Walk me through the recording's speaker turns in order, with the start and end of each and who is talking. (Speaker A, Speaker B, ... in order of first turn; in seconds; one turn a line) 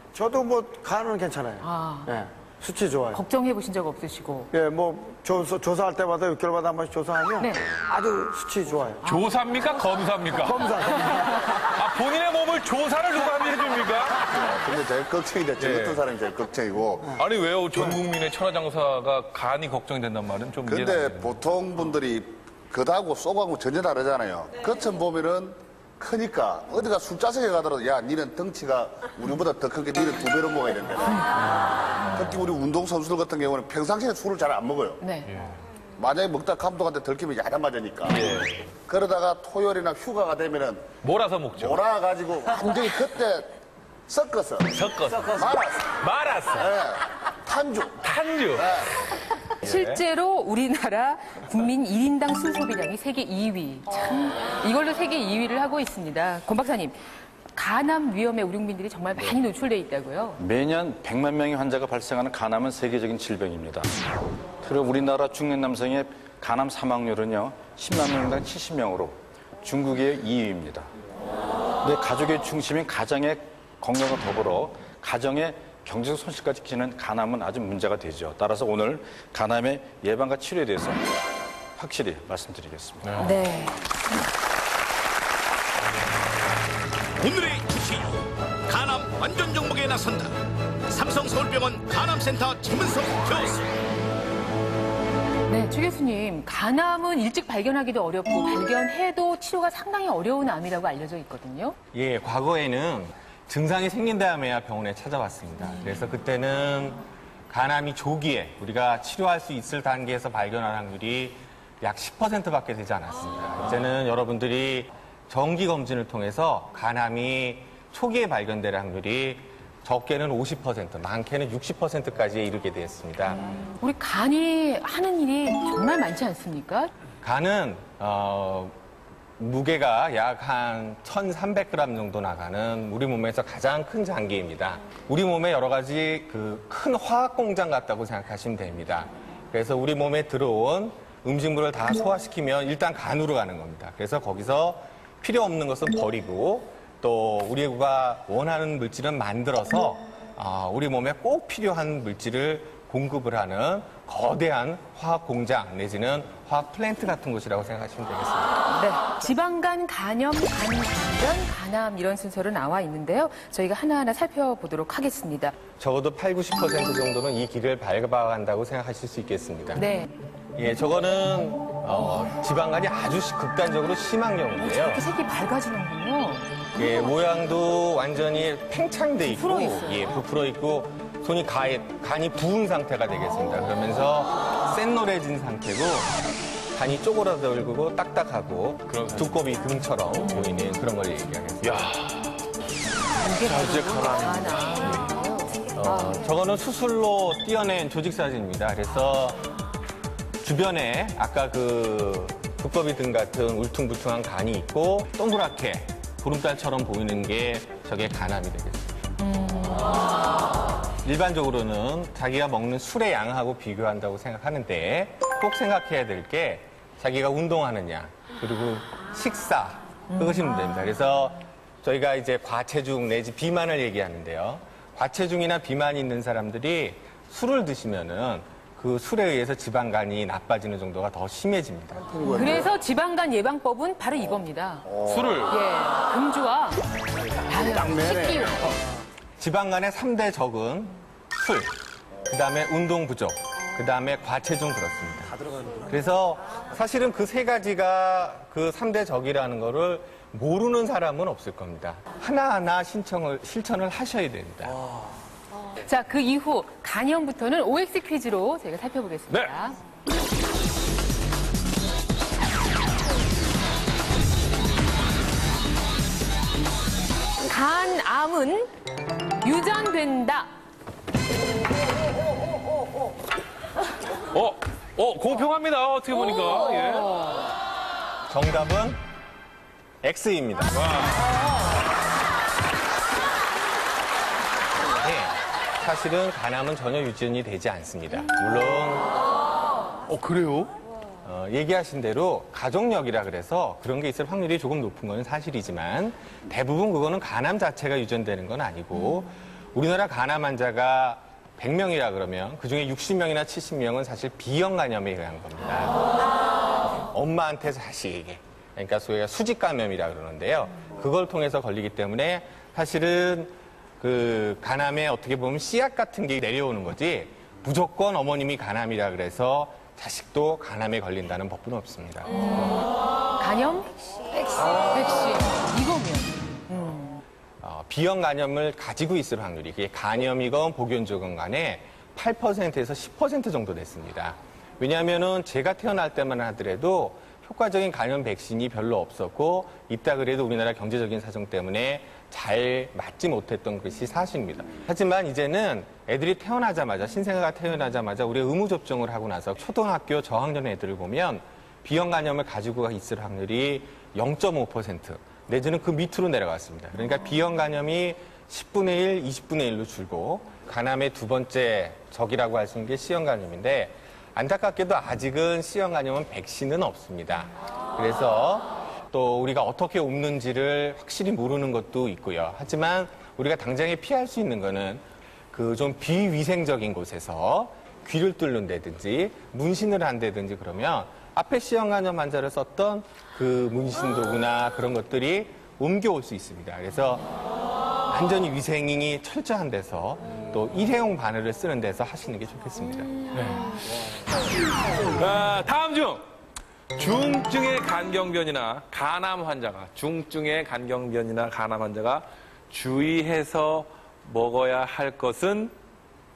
Speaker A: 0.1-3.2
Speaker B: 1.6-2.2
Speaker B: 3.1-4.5
Speaker A: 4.5-9.0
Speaker B: 7.4-7.6
Speaker C: 9.0-14.3
Speaker A: 10.5-11.0
Speaker D: 14.4-17.1
Speaker C: 15.6-16.0
Speaker C: 17.1-21.4
Speaker D: 20.7-31.5
Speaker D: 32.1-35.0
Speaker B: 35.0-35.3
Speaker D: 36.0-40.9
Speaker C: 38.1-38.6
Speaker C: 41.0-41.8
Speaker D: 41.6-43.5
Speaker D: 44.1-44.7
Speaker C: 44.7-46.7
Speaker D: 45.2-45.9
Speaker D: 46.5-48.0
Speaker C: 48.0-48.8
Speaker D: 48.6-48.8
Speaker B: 49.6-57.0
Speaker C: 49.6-50.0
Speaker B: 57.5-60.4
Speaker E: 60.4-64.0
Speaker E: 64.6-70.9
Speaker E: 71.8-81.1
Speaker E: 81.8-83.3
Speaker B: 83.2-83.8
Speaker F: 87.2-88.1
Speaker F: 88.7-90.3
Speaker F: 90.9-93.6
Speaker B: 95.5-101.8
Speaker G: 101.9-123.5
Speaker B: 123.8-126.9
Speaker G: 127.2-128.7
Speaker G: 129.4-158.6
Speaker B: 158.7-165.5
Speaker G: 165.8-169.9
Speaker B: 169.8-170.1
Speaker G: 170.6-175.0
Speaker B: 174.6-176.6
Speaker G: 176.8-186.1
Speaker B: 179.3-180.2
Speaker G: 186.7-191.9
Speaker C: 188.9-189.4
Speaker C: 191.6-192.3
Speaker B: 193.2-196.2
Speaker C: 193.4-194.8
Speaker G: 195.7-199.5
Speaker G: 200.4-208.9
Speaker B: 209.3-209.8
Speaker G: 211.0-232.0
Speaker D: 231.9-232.7
Speaker B: 232.3-234.9
Speaker D: 234.8-235.5
Speaker C: 235.1-235.6
Speaker B: 235.4-236.8
Speaker B: 237.5-238.8
Speaker D: 237.5-238.5
Speaker G: 239.4-241.7
Speaker G: 242.2-254.8
Speaker B: 255.8-259.8
Speaker B: 267.4-268.7
Speaker B: 269.4-270.5
Speaker C: 274.3-277.3
Speaker G: 278.3-279.0
Speaker G: 280.0-280.8
Speaker C: 280.8-281.3
Speaker G: 285.0-289.1
Speaker C: 290.1-290.7
Speaker G: 291.2-305.9
Speaker G: 307.1-322.7
Speaker B: 322.3-322.9
Speaker B: 323.4-323.9
Speaker B: 324.5-327.2
Speaker G: 327.6-387.3
Speaker G: 388.1-393.3
Speaker C: 393.3-393.6
Speaker C: 395.2-396.2
Speaker C: 396.9-405.7